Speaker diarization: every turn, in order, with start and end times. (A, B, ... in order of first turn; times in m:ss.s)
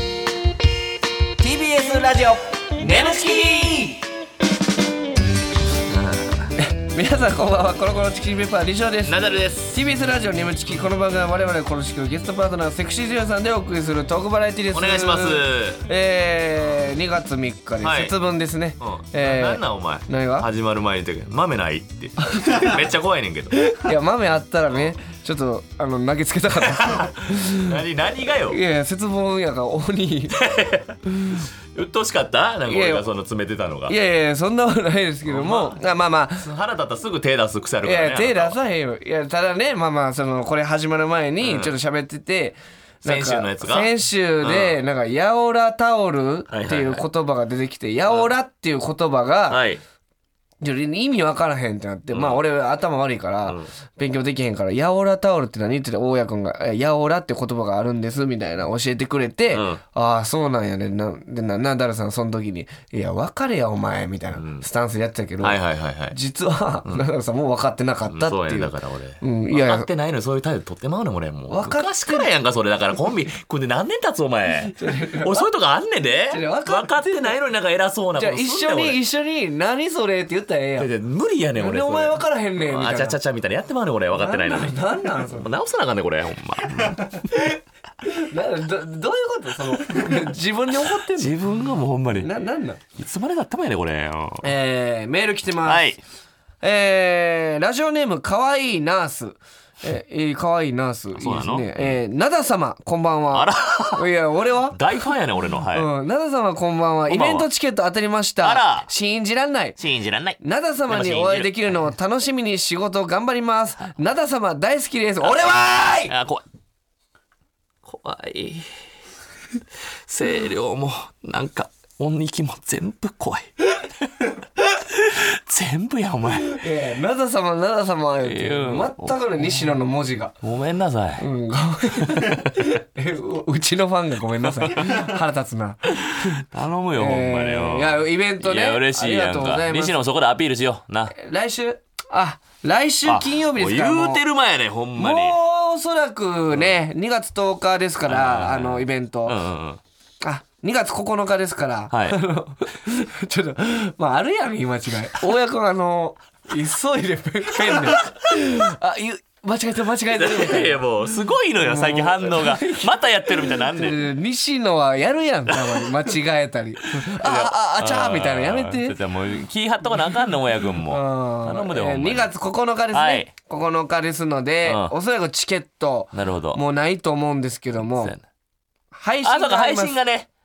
0:01.4-0:04.0 A
0:05.9-0:06.5 B
0:06.6-0:20.5 A
0:09.1-0:09.8 B
0:14.7-0:15.8 B
0:17.8-0:18.1 B
0:18.8-0:23.7 B
0:23.7-0:27.8 A
0:26.7-0:28.6 B
0:28.5-0:30.4 A
0:30.3-0:31.0 B
0:31.7-0:34.0 B
0:32.7-0:33.1 A
0:33.9-0:36.5 A
0:35.2-0:35.8 B
0:36.4-0:38.6 B
0:37.8-0:49.6 A
0:41.4-0:41.8 B
0:43.0-0:44.8 B
0:46.5-0:47.0 B
0:49.5-0:49.8 B
0:50.6-1:09.9 A
0:52.1-0:52.4 B
0:53.4-0:53.7 B
0:59.5-0:59.8 B
1:04.3-1:04.6 B
1:05.4-1:06.2 B
1:08.1-1:19.0 B
1:11.5-1:12.3 A
1:14.7-1:15.5 A
1:16.3-1:17.3 A
1:18.2-1:20.9 A
1:20.8-1:27.3 B
1:21.6-1:23.2 A
1:24.1-1:25.5 A
1:27.4-1:31.3 A
1:31.1-1:32.3 B
1:32.2-1:32.8 A
1:33.0-1:34.5 B
1:34.4-1:35.9 A
1:35.6-1:36.0 B
1:36.6-1:44.8 A
1:41.2-1:42.0 B
1:43.3-1:44.1 B
1:44.7-1:45.9 B
1:45.7-1:49.8 A
1:47.1-1:47.5 B
1:48.4-1:48.9 B
1:49.8-1:51.8 B
1:50.4-1:56.1 A
1:56.0-1:56.4 B
1:57.8-1:58.7 B
2:00.1-2:06.6 B
2:06.5-2:10.4 A
2:08.2-2:09.7 B
2:10.4-2:11.3 B
2:11.2-2:16.0 A
2:11.9-2:12.6 B
2:14.4-2:15.2 B
2:16.1-2:21.2 B
2:17.0-2:20.0 A
2:21.1-2:24.2 A
2:23.0-2:25.4 B
2:25.0-2:29.4 A
2:28.1-2:29.8 B
2:30.2-2:40.9 A
2:31.9-2:32.2 B
2:37.7-2:38.1 B
2:40.2-2:44.1 B
2:41.6-2:49.0 A
2:47.0-2:52.3 B
2:50.8-2:58.2 A
2:52.9-2:53.3 B
2:54.6-2:54.9 B
2:56.1-2:56.6 B
2:57.8-2:58.2 B
2:58.9-3:00.0 A
2:59.2-3:00.3 B